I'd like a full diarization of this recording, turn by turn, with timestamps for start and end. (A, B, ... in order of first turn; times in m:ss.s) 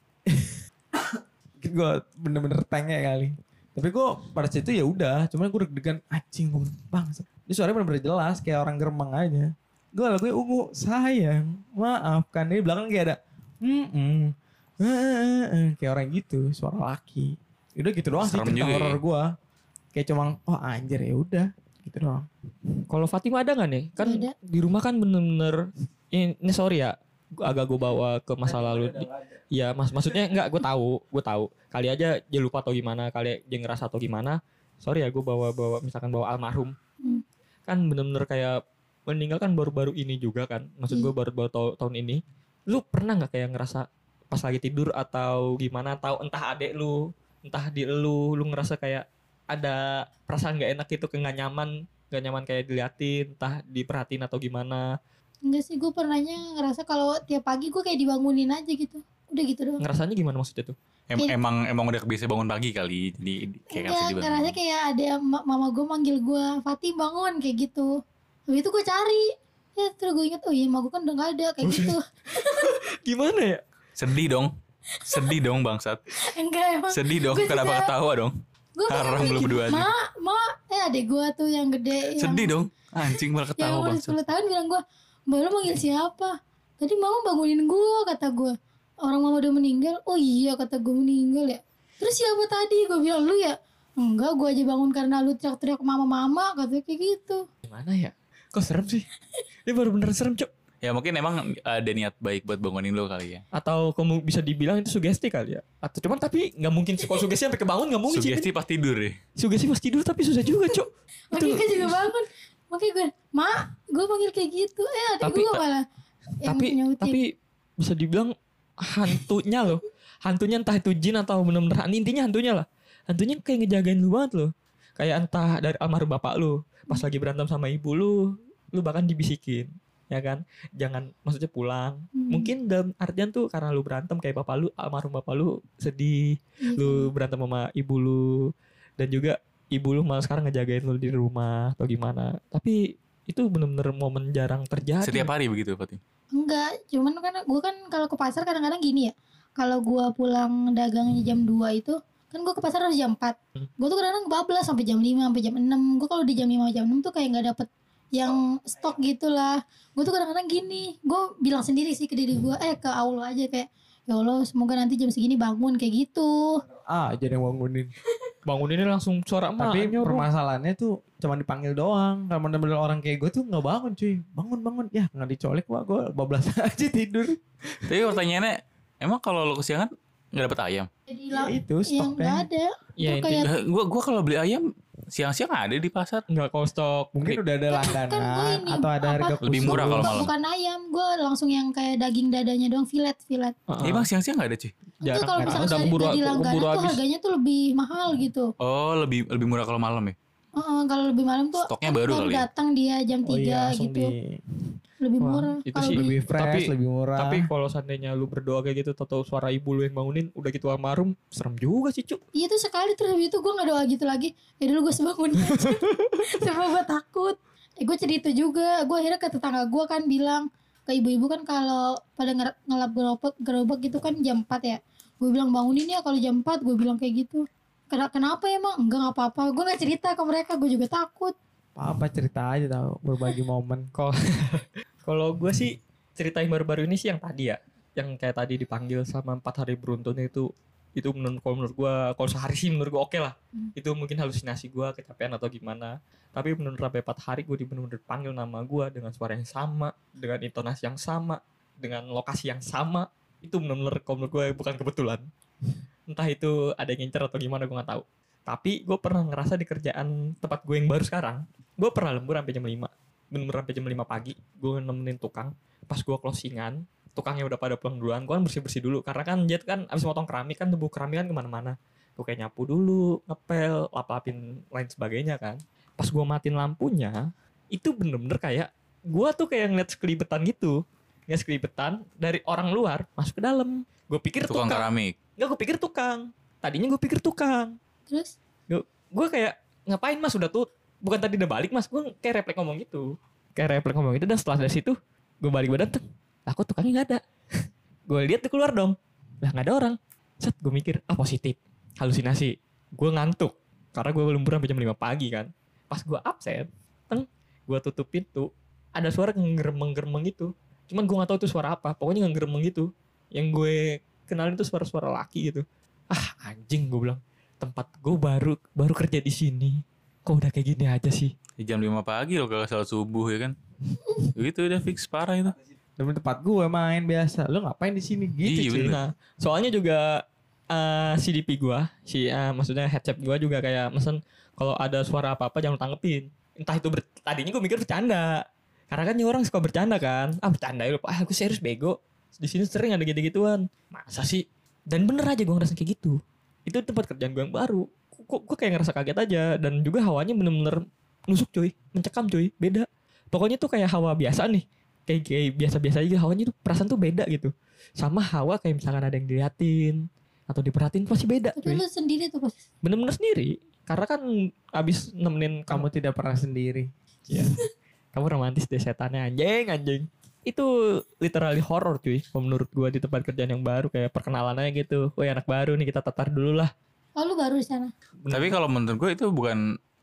0:00.3-0:19.3 A
0:18.2-0:19.0 B
0:19.9-0:22.3 A
0:22.9-0:36.7 C
0:24.0-0:24.3 D
0:28.7-0:29.1 A
0:37.7-0:54.8 C
0:55.4-0:59.8 D
0:59.8-1:00.7 C
1:01.1-1:04.6 B
1:03.7-1:07.9 D
1:08.5-1:12.8 D
1:11.6-1:13.6 C
1:14.0-1:14.5 B
1:15.0-1:15.3 D
1:15.0-1:16.0 B
1:16.2-1:17.9 D
1:16.9-1:18.3 B
1:18.7-1:22.5 D
1:18.9-1:19.9 B
1:22.1-1:24.2 B
1:23.0-1:37.4 D
1:37.7-1:39.1 C
1:39.7-1:40.5 C
1:40.8-1:43.4 B
1:43.5-1:48.5 C
1:48.1-1:49.2 B
1:49.4-1:52.0 C
1:51.3-1:55.8 D
1:55.2-1:55.6 C
1:56.4-1:57.2 D
1:56.4-1:57.3 C
1:57.8-2:25.3 C
2:12.1-2:12.5 D
2:16.6-2:17.1 D
2:25.0-2:26.0 B
2:26.3-2:46.6 D
2:46.8-2:47.9 A
2:48.4-2:50.2 C
2:49.6-2:58.2 A
2:57.9-3:00.9 B
3:01.1-3:03.5 D
3:01.3-3:02.4 A
3:03.0-3:03.5 C
3:03.4-3:06.2 B
3:06.3-3:07.2 C
3:07.1-3:10.3 A
3:07.7-3:13.5 D
3:09.4-3:10.3 B
3:13.7-3:14.1 C
3:13.8-3:14.7 B
3:15.0-3:17.0 C
3:15.0-3:18.5 D
3:15.4-3:16.0 A
3:18.6-3:20.1 B
3:20.6-3:24.1 D
3:21.6-3:22.4 B
3:23.3-3:24.4 A
3:25.0-3:26.1 D
3:25.2-3:32.2 C
3:25.9-3:27.4 A
3:32.3-3:51.3 D
3:35.6-3:36.1 C
3:51.8-3:53.9 A
3:54.0-4:15.2 C
4:16.1-4:44.8 C
4:44.5-4:45.2 B
4:45.4-4:47.8 C
4:48.1-4:48.3 D
4:48.7-5:21.3 C
5:21.6-5:23.6 B
5:24.2-5:25.6 B
5:26.0-5:29.0 A
5:28.4-5:29.0 B
5:28.8-6:01.8 C
6:01.6-6:02.6 D
6:02.8-6:04.2 C
6:04.8-6:05.9 C
6:05.7-6:06.9 A
6:07.3-6:07.5 C
6:08.1-6:10.7 C
6:11.2-6:16.7 C
6:17.2-6:17.9 D
6:18.2-6:18.6 C
6:18.3-6:19.6 B